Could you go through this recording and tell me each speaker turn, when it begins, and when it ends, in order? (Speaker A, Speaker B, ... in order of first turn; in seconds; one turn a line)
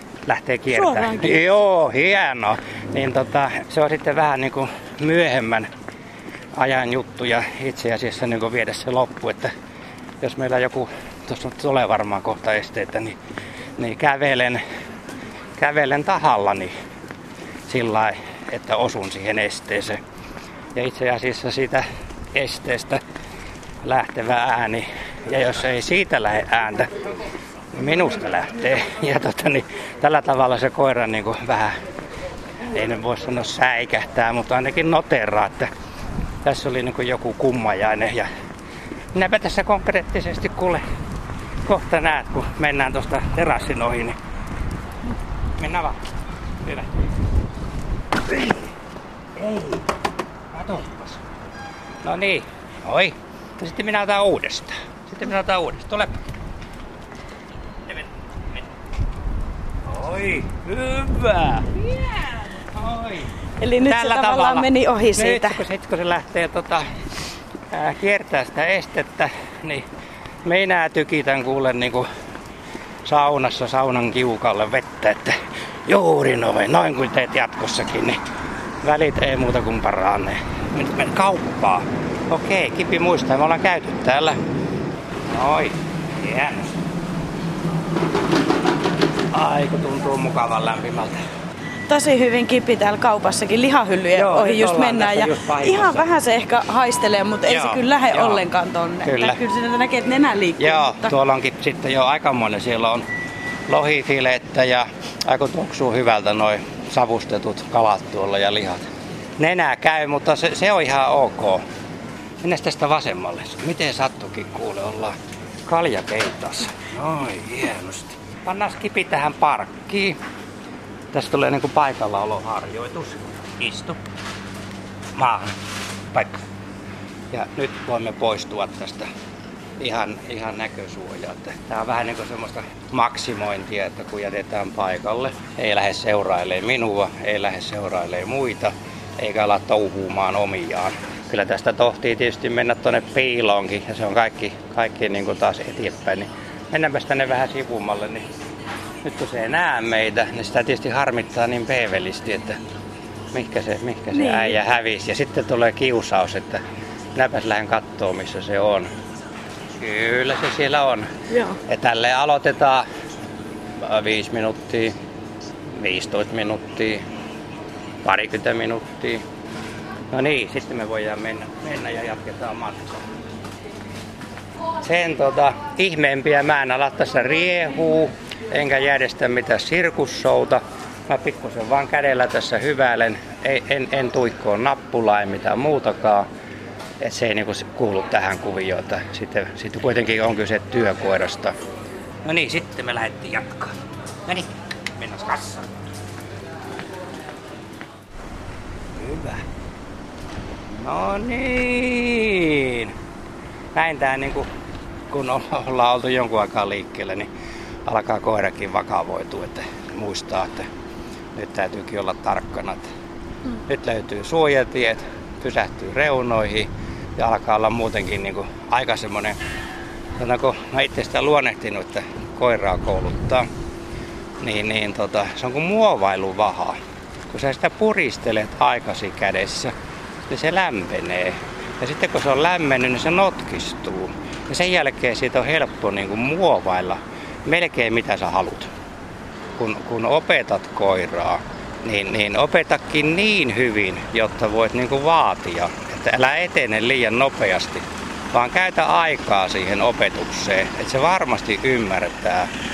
Speaker A: 0.3-5.7
Speaker B: 0.7-1.5
Speaker A: 6.5-9.5
Speaker A: 10.2-13.2
Speaker A: 13.8-14.6
Speaker A: 15.6-16.7
Speaker A: 17.7-20.0
Speaker A: 20.7-23.0
Speaker A: 23.8-27.0
Speaker A: 27.7-31.8
Speaker A: 32.7-35.7
Speaker A: 36.4-38.3
Speaker A: 39.1-40.8
Speaker A: 41.6-44.2
Speaker A: 45.6-46.9
Speaker A: 48.3-48.7
Speaker A: 49.4-49.9
Speaker A: 50.5-51.2
Speaker A: 52.0-56.2
Speaker A: 57.9-58.7
Speaker A: 59.9-66.9
Speaker B: 63.6-65.6
Speaker A: 67.7-69.9
Speaker A: 70.5-72.1
Speaker A: 73.0-78.2
Speaker A: 78.8-84.4
Speaker A: 85.3-86.8
Speaker A: 89.3-91.2
Speaker B: 91.9-101.1
Speaker A: 94.2-96.1
Speaker A: 97.5-98.4
Speaker A: 99.0-99.4
Speaker A: 100.6-103.0
Speaker A: 103.7-108.9
Speaker A: 109.4-111.6
Speaker A: 112.4-120.2
Speaker A: 121.1-124.0
Speaker A: 125.2-125.5
Speaker A: 126.1-126.4
Speaker A: 127.3-129.1
Speaker A: 129.8-148.3
Speaker A: 149.0-152.6
Speaker A: 153.3-156.6
Speaker B: 154.1-154.6
Speaker A: 157.2-158.9
Speaker A: 159.8-161.1
Speaker B: 161.3-161.6
Speaker A: 161.7-162.9
Speaker A: 163.8-164.9
Speaker A: 165.7-167.0
Speaker A: 168.0-169.2
Speaker A: 170.1-173.0
Speaker A: 174.8-186.3
Speaker A: 187.0-191.6
Speaker A: 192.2-195.7
Speaker A: 198.9-199.5
Speaker A: 200.7-202.9
Speaker A: 203.7-204.5
Speaker A: 205.1-207.3
Speaker A: 207.8-210.7
Speaker A: 211.3-212.8
Speaker A: 213.7-219.4
Speaker A: 220.2-223.5
Speaker A: 224.4-226.8
Speaker A: 227.3-229.7
Speaker A: 230.3-238.7
Speaker A: 239.6-252.5